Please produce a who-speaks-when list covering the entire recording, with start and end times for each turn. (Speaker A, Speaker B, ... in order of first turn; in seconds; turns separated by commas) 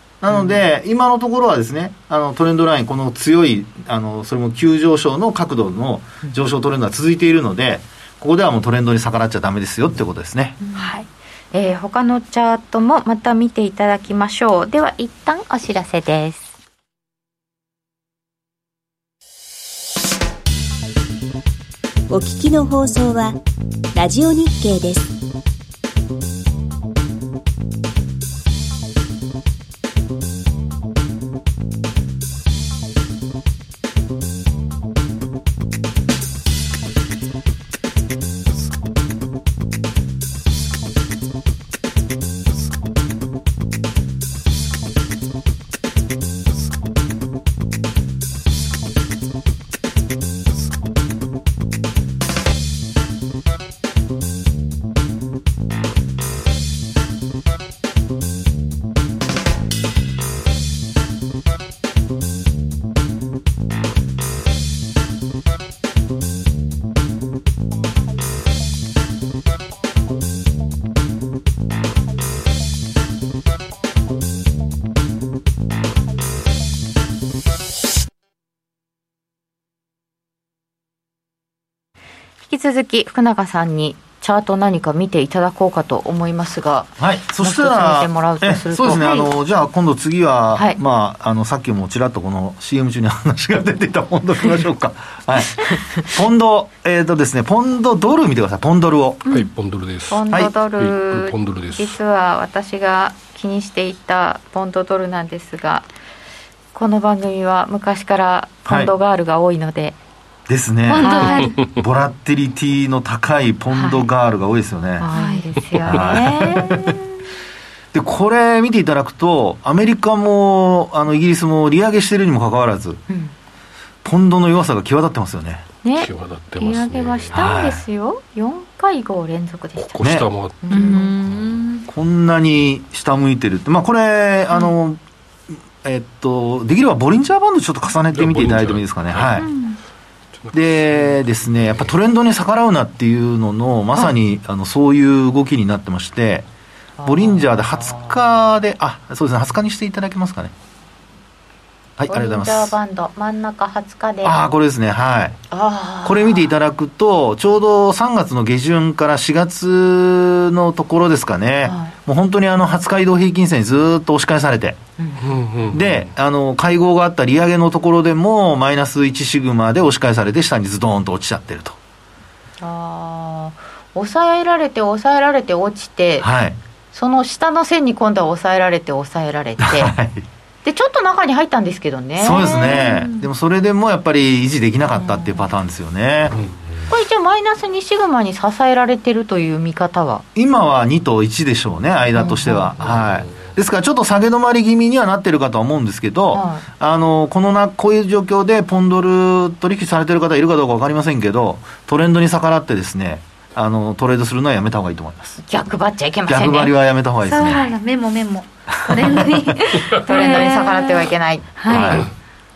Speaker A: 0.2-10.6, Speaker B: 10.6-10.9, Speaker C: 10.7-16.5, Speaker D: 22.1-23.4, Speaker D: 23.9-25.1, Speaker C: 82.4-89.3, Speaker A: 87.0-99.3, Speaker E: 99.3-100.2, Speaker C: 100.1-105.9, Speaker E: 100.8-102.0, Speaker C: 106.7-110.0, Speaker A: 108.7-108.9, Speaker A: 110.5-115.1, Speaker C: 110.9-111.6, Speaker B: 110.9-111.6, Speaker C: 113.7-114.1, Speaker C: 115.0-116.9, Speaker B: 115.1-115.5, Speaker A: 115.8-117.0, Speaker A: 117.9-123.0, Speaker A: 124.0-125.6, Speaker C: 125.8-130.0, Speaker E: 126.0-127.4, Speaker A: 127.3-127.8, Speaker E: 129.8-131.6, Speaker A: 130.0-130.3, Speaker C: 130.6-131.1, Speaker B: 130.7-131.8, Speaker A: 131.9-135.0, Speaker A: 135.5-139.5, Speaker E: 138.1-139.4, Speaker B: 139.4-139.8, Speaker E: 140.4-141.2, Speaker A: 140.5-146.4, Speaker C: 147.0-148.1, Speaker A: 147.1-150.5, Speaker A: 152.0-152.7, Speaker C: 152.1-154.4, Speaker A: 154.2-155.4, Speaker C: 155.5-156.5, Speaker A: 156.0-164.8, Speaker C: 161.6-161.9, Speaker C: 165.0-165.4, Speaker E: 165.2-166.0, Speaker A: 165.7-171.8, Speaker C: 172.6-176.3, Speaker A: 176.2-176.6, Speaker C: 176.9-179.9, Speaker A: 179.6-180.3, Speaker C: 180.6-183.1, Speaker A: 182.2-186.4, Speaker E: 186.3-186.6, Speaker C: 186.9-190.2, Speaker A: 190.3-205.4, Speaker C: 192.2-192.8, Speaker E: 192.8-193.3, Speaker C: 196.3-196.6, Speaker C: 205.4-206.7, Speaker A: 206.3-207.7, Speaker B: 207.2-212.1, Speaker C: 207.4-207.7, Speaker A: 208.7-209.5, Speaker C: 209.6-212.1, Speaker A: 211.7-212.1